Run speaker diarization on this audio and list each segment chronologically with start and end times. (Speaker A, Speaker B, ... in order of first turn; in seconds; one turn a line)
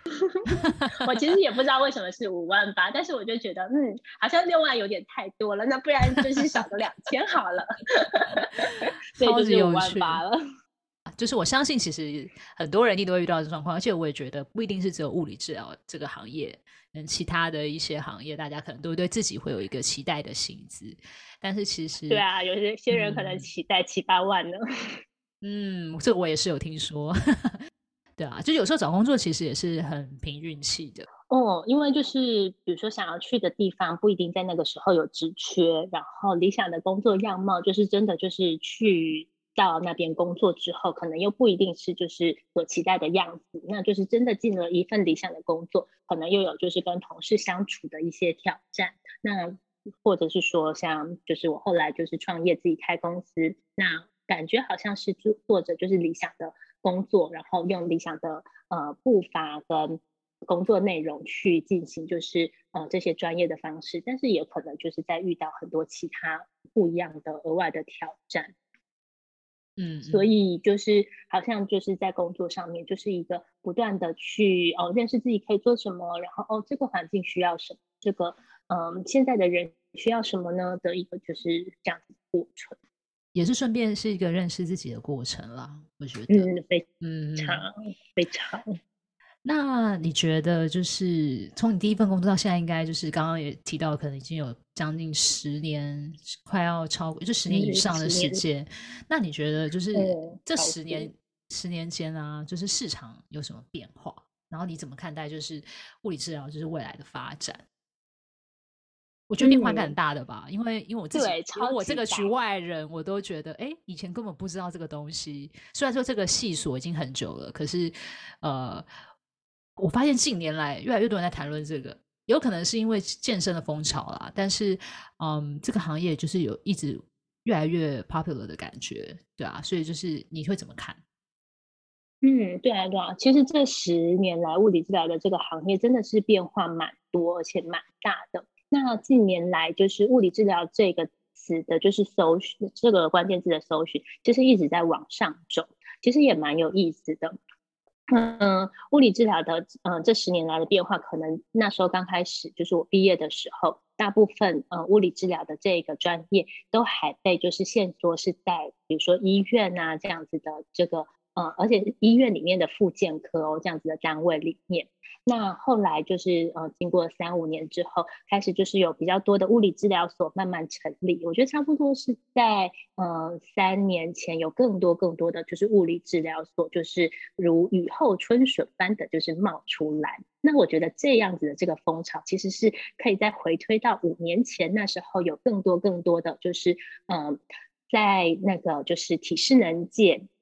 Speaker A: 0.3-10.4
Speaker B: 0.5-1.0
Speaker B: 9.2-10.2
Speaker B: 11.1-22.2
Speaker A: 22.1-25.0
Speaker B: 22.9-23.5
Speaker B: 25.4-27.6
Speaker B: 28.2-31.1
Speaker A: 31.3-68.5
Speaker B: 69.8-70.3
Speaker A: 70.1-82.8
Speaker B: 83.3-86.5
Speaker A: 86.3-88.8
Speaker B: 87.0-87.7
Speaker B: 89.4-107.6
Speaker A: 97.5-98.4
Speaker A: 99.9-101.1
Speaker B: 109.3-118.8
Speaker A: 109.4-109.9
Speaker A: 111.1-112.3
Speaker B: 119.8-131.0
Speaker A: 132.2-147.4
Speaker A: 148.1-190.3